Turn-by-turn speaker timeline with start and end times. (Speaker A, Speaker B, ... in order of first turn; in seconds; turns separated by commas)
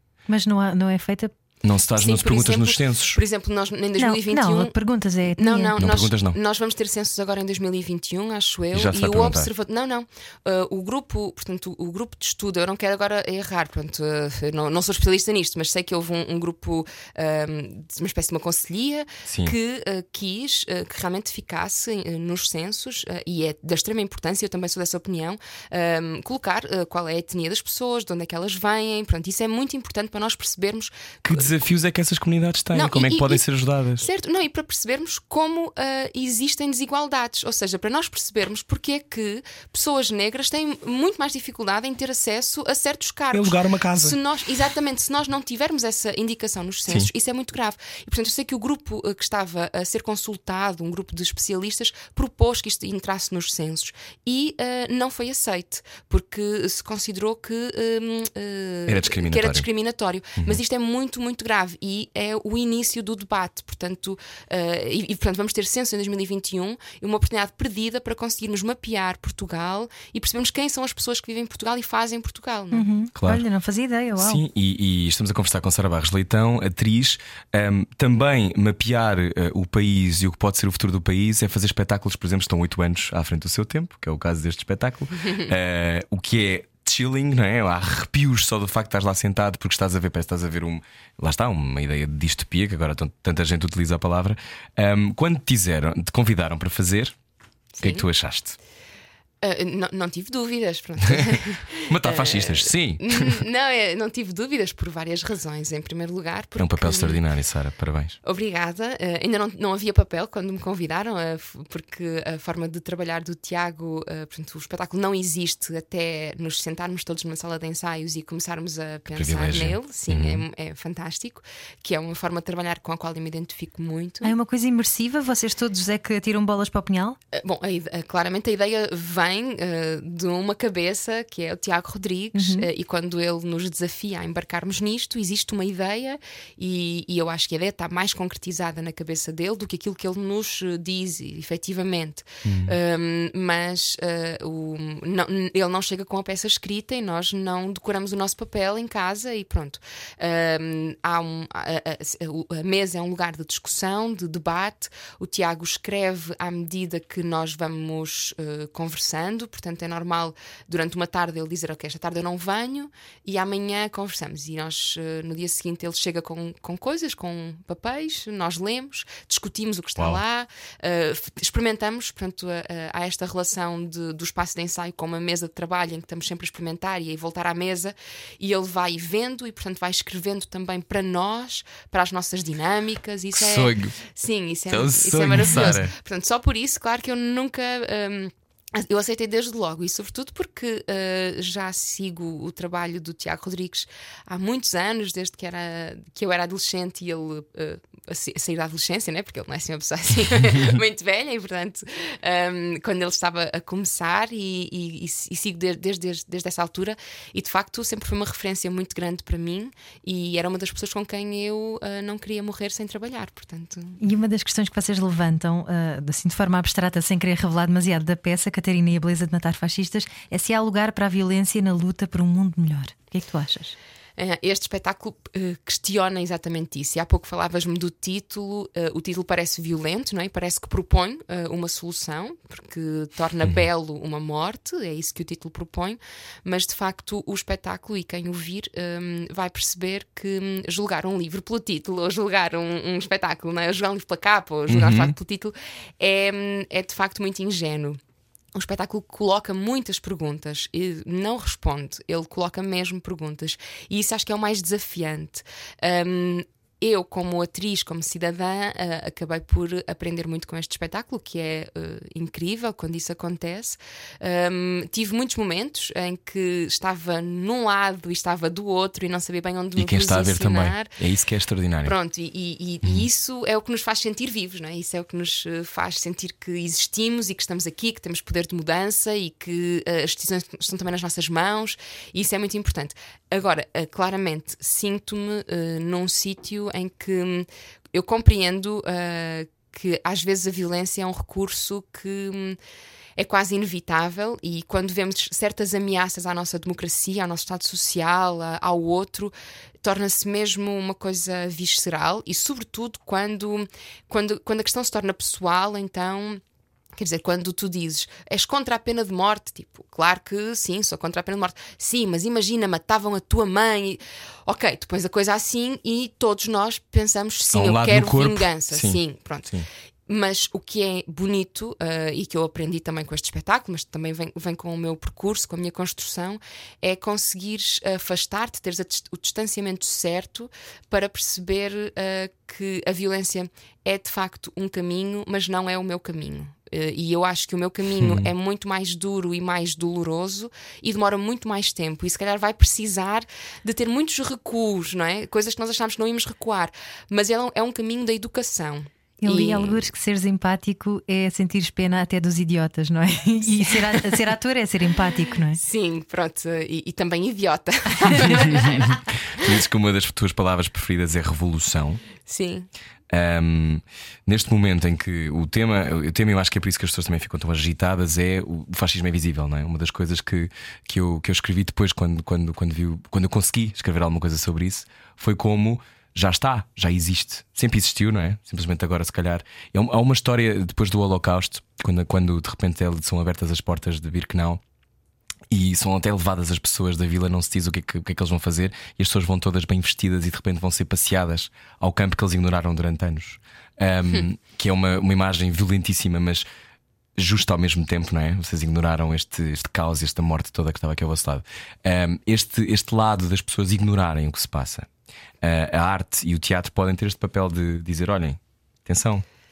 Speaker A: 0.3-1.3, Speaker B: 1.6-3.2, Speaker C: 1.9-4.7, Speaker A: 4.0-5.7, Speaker C: 5.3-31.5, Speaker B: 5.8-6.4, Speaker B: 8.7-9.5, Speaker B: 19.3-19.6, Speaker B: 31.2-34.0, Speaker C: 32.7-33.4, Speaker C: 34.0-72.9, Speaker B: 43.3-44.2, Speaker B: 58.9-59.7, Speaker A: 72.7-74.4, Speaker B: 73.2-73.5, Speaker B: 74.2-97.2, Speaker C: 97.7-98.1, Speaker B: 97.8-98.6, Speaker C: 99.4-107.2, Speaker B: 101.1-103.4, Speaker B: 106.6-108.2, Speaker C: 108.2-124.3, Speaker B: 119.2-120.4, Speaker A: 124.2-127.2, Speaker C: 127.3-214.0, Speaker A: 132.3-132.7, Speaker B: 142.4-142.7, Speaker B: 170.0-170.2, Speaker B: 183.3-183.9, Speaker B: 184.7-185.9, Speaker A: 214.0-223.8, Speaker C: 224.2-248.0, Speaker B: 244.7-245.1, Speaker C: 248.6-270.9, Speaker B: 269.8-271.9, Speaker C: 271.8-292.6, Speaker C: 293.2-306.4, Speaker C: 307.0-319.5, Speaker B: 317.5-319.7, Speaker C: 320.1-349.9, Speaker B: 338.0-338.3, Speaker A: 349.2-355.6, Speaker C: 355.6-358.9, Speaker B: 358.2-362.0, Speaker C: 362.2-362.7, Speaker B: 363.1-384.6, Speaker B: 385.5-396.4, Speaker B: 397.2-404.9, Speaker B: 405.4-409.2